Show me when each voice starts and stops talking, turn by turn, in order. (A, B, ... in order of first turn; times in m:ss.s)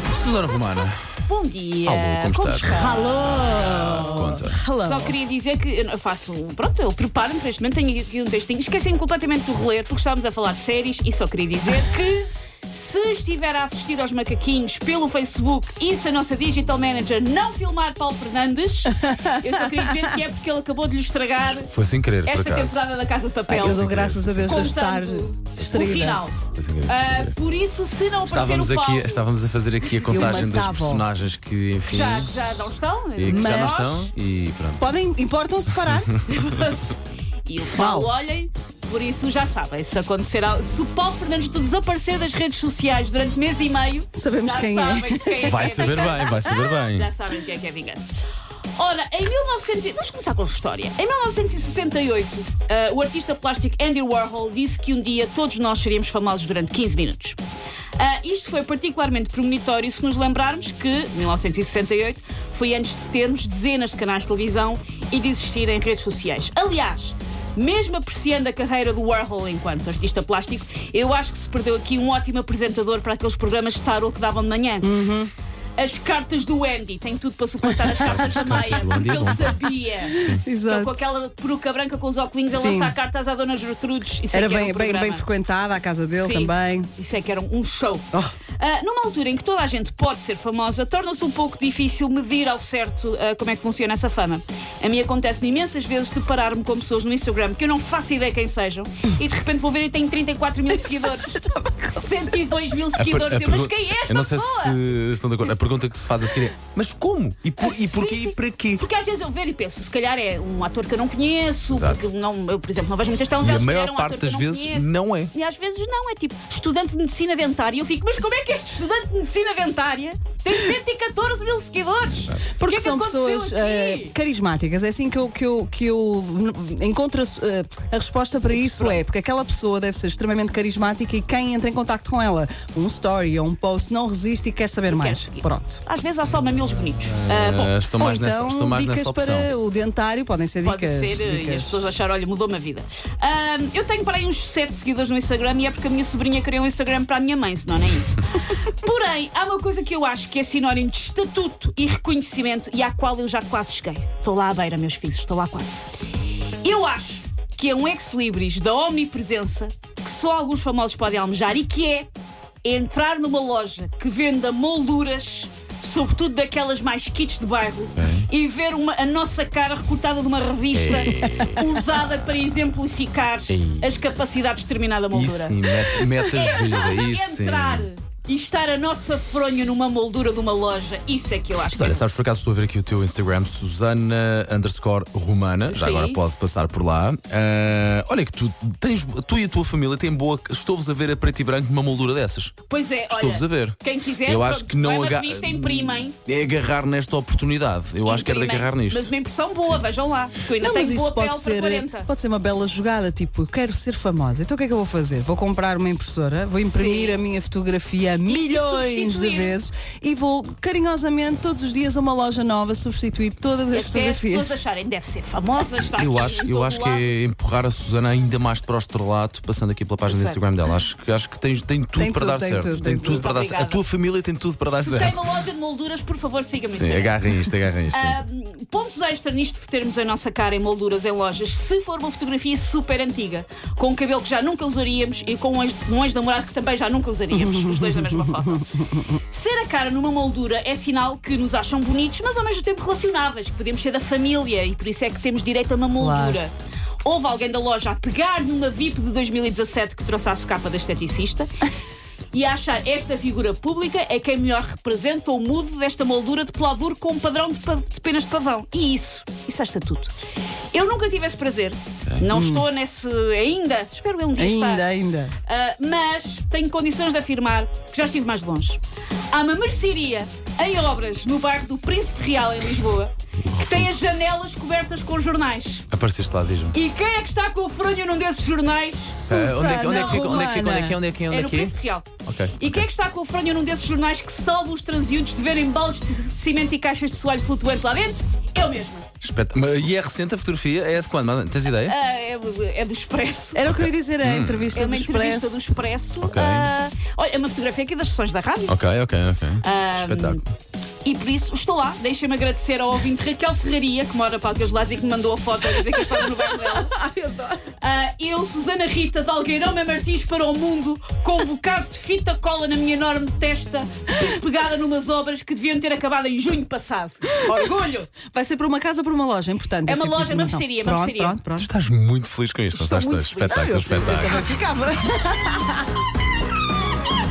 0:00.1-0:01.0 A
0:01.3-0:03.5 B
0:01.8-0:04.6 A
0:02.7-0:05.2 C
0:04.7-0:21.7 B
0:19.0-0:20.2 C
0:21.5-0:22.8 A
0:22.2-0:23.9 B
0:23.5-0:26.2 C
0:23.5-0:24.8 A
0:24.5-0:29.3 B
0:25.6-0:27.4 A
0:28.3-0:35.0 A
0:30.0-0:31.1 C
0:31.9-0:34.1 B
0:33.3-0:33.7 C
0:34.8-0:36.2 C
0:35.7-0:36.1 A
0:36.3-0:48.1 B
0:37.8-0:38.1 C
0:44.2-0:45.8 C
0:45.4-0:47.1 A
0:48.8-0:57.4 B
0:58.0-1:14.9 B
1:14.8-1:15.3 C
1:15.8-1:25.2 B
1:17.6-1:19.1 C
1:18.0-1:20.5 A
1:20.1-1:21.1 C
1:22.5-1:23.0 C
1:24.3-1:26.9 C
1:26.1-1:41.4 B
1:40.7-1:42.6 C
1:42.0-1:44.8 B
1:43.0-1:48.8 A
1:47.9-2:04.2 B
1:51.7-1:52.0 A
1:53.4-1:55.3 A
2:02.5-2:15.8 C
2:08.6-2:09.0 B
2:14.9-2:17.8 B
2:17.1-2:19.5 A
2:18.0-2:21.9 C
2:20.6-2:35.9 B
2:36.6-2:42.1 B
2:42.6-3:02.1 B
2:48.0-2:48.3 A
2:50.7-2:51.8 A
2:53.5-2:54.1 A
2:55.1-2:57.9 A
3:01.7-3:12.6 A
3:05.7-3:06.2 B
3:12.7-3:16.2 B
3:13.1-3:19.1 A
3:18.0-3:22.1 B
3:20.6-3:34.6 C
3:26.6-3:27.2 B
3:28.3-3:29.6 B
3:33.7-3:37.1 B
3:35.8-3:45.2 A
3:40.1-3:40.4 B
3:42.0-3:43.2 C
3:42.6-3:43.8 B
3:44.8-3:47.4 B
3:46.7-3:48.2 A
3:47.9-3:58.6 B
3:57.3-3:59.2 C
3:59.3-4:06.5 B
4:06.0-4:06.4 C
4:07.0-4:11.5 B
4:12.3-4:20.1 B
4:20.7-4:24.9 B
4:22.3-4:22.7 C
4:24.4-4:25.3 C
4:25.4-4:28.8 B
4:29.3-4:35.9 B
4:33.5-4:33.9 A
4:35.9-4:36.7 A
4:36.7-4:40.4 B
4:39.2-4:42.8 A
4:39.3-4:41.0 C
4:41.3-4:49.1 B
4:49.2-4:52.0 A
4:51.8-4:53.6 B
4:53.5-4:55.7 C
4:53.7-4:54.7 A
4:54.7-4:58.8 B
4:56.2-4:56.7 A
4:58.7-5:00.4 A
4:59.6-5:00.4 B
5:01.0-5:07.0 B
5:05.8-5:07.6 C
5:07.8-5:18.1 B
5:17.5-5:17.7 C
5:18.3-5:21.7 C
5:19.8-5:21.4 B
5:21.6-5:24.5 A
5:22.7-5:24.2 B
5:23.5-5:25.9 C